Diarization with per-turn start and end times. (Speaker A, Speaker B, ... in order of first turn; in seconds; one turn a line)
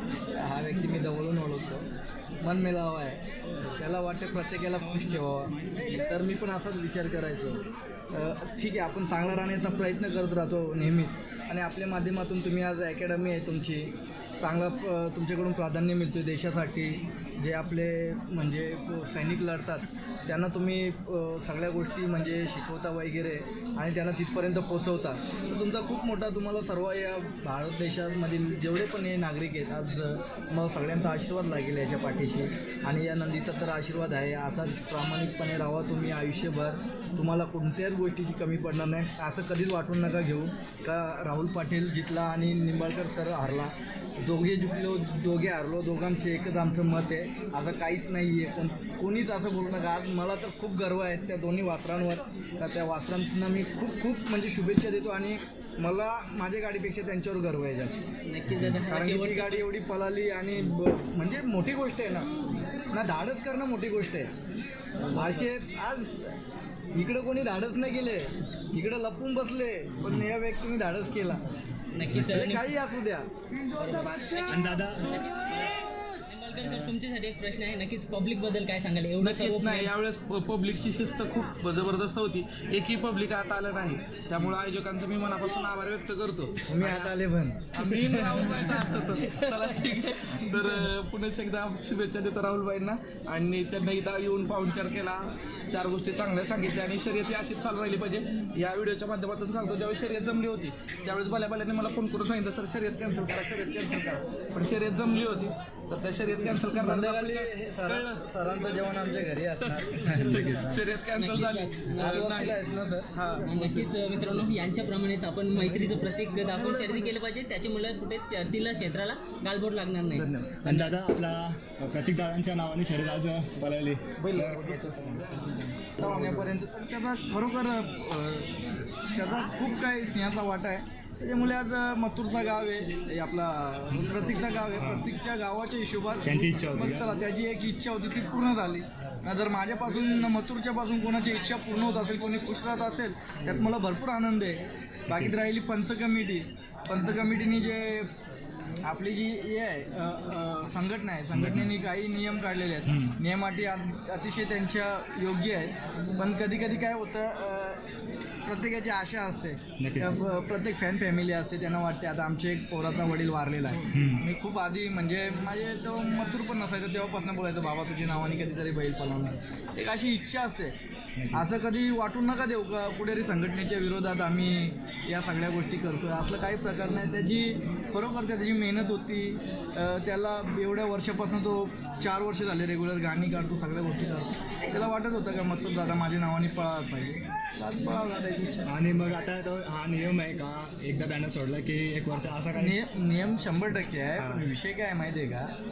Speaker A: 0.3-1.9
Speaker A: 2.4-13.9
Speaker A: 14.4-58.0
Speaker B: 58.2-59.6
Speaker C: 58.5-58.8
Speaker A: 58.8-62.3
Speaker A: 62.9-64.3
Speaker A: 65.1-66.3
Speaker A: 66.9-71.4
Speaker B: 71.9-72.7
Speaker C: 72.1-72.4
Speaker A: 72.2-73.2
Speaker B: 73.8-79.9
Speaker A: 73.8-74.6
Speaker C: 74.5-75.3
Speaker C: 76.6-76.9
Speaker D: 79.2-87.1
Speaker A: 86.7-88.4
Speaker D: 87.7-108.2
Speaker B: 88.3-89.8
Speaker A: 106.8-110.0
Speaker D: 109.6-112.6
Speaker C: 110.0-110.8
Speaker B: 111.2-112.5
Speaker A: 112.0-113.1
Speaker D: 113.1-113.9
Speaker B: 113.4-120.3
Speaker D: 120.2-120.5
Speaker A: 120.4-120.9
Speaker C: 120.6-126.5
Speaker D: 124.2-124.9
Speaker A: 126.0-148.1
Speaker C: 134.8-135.1
Speaker C: 136.2-137.1
Speaker C: 145.1-145.3
Speaker A: 148.8-157.8
Speaker C: 151.3-151.7
Speaker C: 152.8-153.2
Speaker A: 158.4-170.7
Speaker C: 159.8-160.1
Speaker C: 163.9-164.3
Speaker C: 171.2-171.4
Speaker A: 171.3-188.7
Speaker C: 188.7-192.8
Speaker A: 192.6-195.5
Speaker C: 194.2-194.5